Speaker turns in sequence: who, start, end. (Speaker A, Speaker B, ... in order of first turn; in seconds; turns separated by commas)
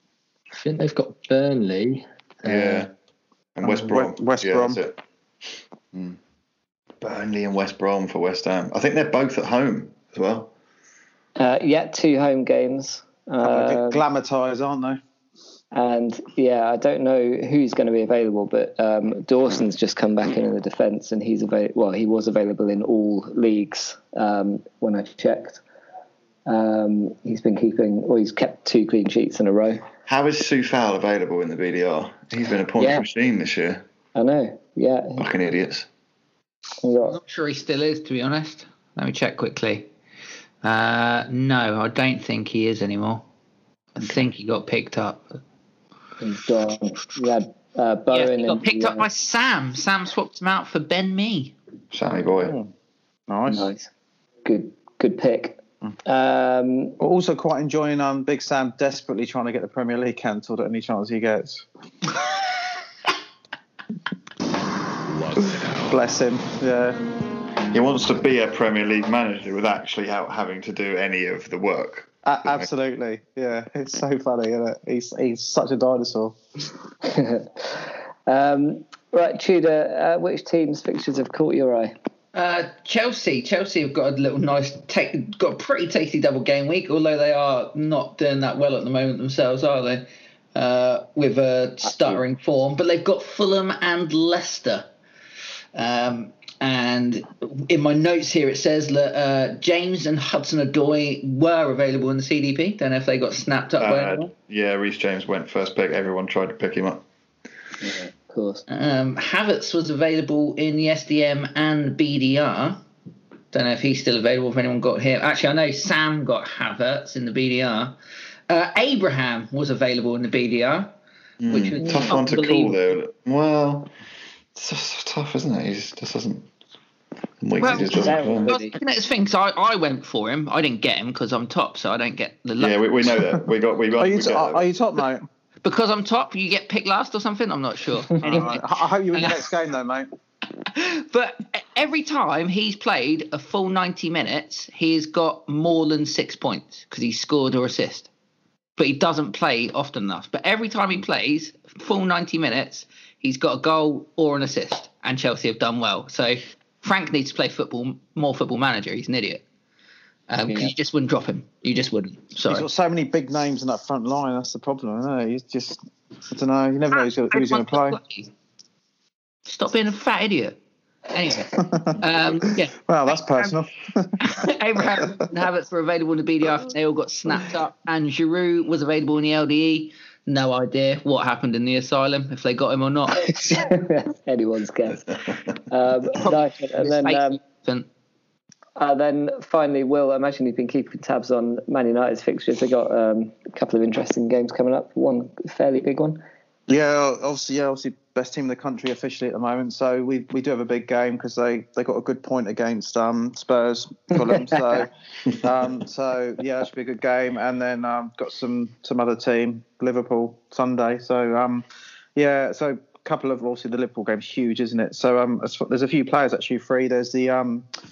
Speaker A: 0.5-2.9, Speaker B: 2.4-2.9, Speaker B: 3.5-5.0, Speaker C: 3.6-4.8, Speaker B: 7.0-10.5, Speaker D: 11.4-14.0, Speaker C: 13.4-15.0, Speaker D: 15.7-25.6, Speaker D: 26.4-29.8, Speaker B: 30.1-33.8, Speaker D: 32.8-33.0, Speaker D: 34.1-35.3, Speaker B: 35.2-35.9, Speaker D: 36.8-37.2, Speaker E: 37.0-39.9, Speaker E: 40.6-43.2, Speaker E: 44.0-45.4, Speaker D: 46.2-49.1, Speaker E: 48.1-51.5, Speaker B: 51.9-52.5, Speaker C: 53.3-53.7, Speaker D: 53.5-53.9, Speaker D: 54.4-57.0, Speaker C: 57.0-61.6, Speaker C: 65.3-67.0, Speaker B: 67.7-72.7, Speaker C: 72.2-76.4, Speaker D: 77.0-81.9, Speaker E: 82.3-94.9, Speaker E: 95.7-104.3, Speaker B: 103.8-107.0, Speaker D: 107.8-108.6, Speaker E: 108.7-112.8, Speaker E: 113.5-118.0, Speaker E: 118.5-120.9, Speaker B: 121.4-123.9, Speaker E: 121.5-122.9, Speaker D: 121.8-122.1, Speaker B: 124.5-126.5, Speaker B: 127.4-128.5, Speaker E: 127.6-133.1, Speaker D: 127.6-128.7, Speaker B: 132.6-134.6, Speaker C: 133.9-135.2, Speaker E: 135.6-139.4, Speaker C: 138.2-140.1, Speaker E: 140.7-148.1, Speaker E: 148.8-159.4, Speaker E: 160.3-162.7, Speaker D: 160.5-160.7, Speaker C: 162.5-168.0, Speaker E: 166.9-168.3, Speaker E: 169.5-170.6, Speaker E: 171.1-173.6, Speaker C: 171.6-174.2, Speaker E: 174.2-183.4, Speaker D: 183.3-187.4, Speaker E: 186.2-187.9, Speaker D: 188.8-196.2, Speaker C: 196.7-211.6, Speaker C: 212.2-217.7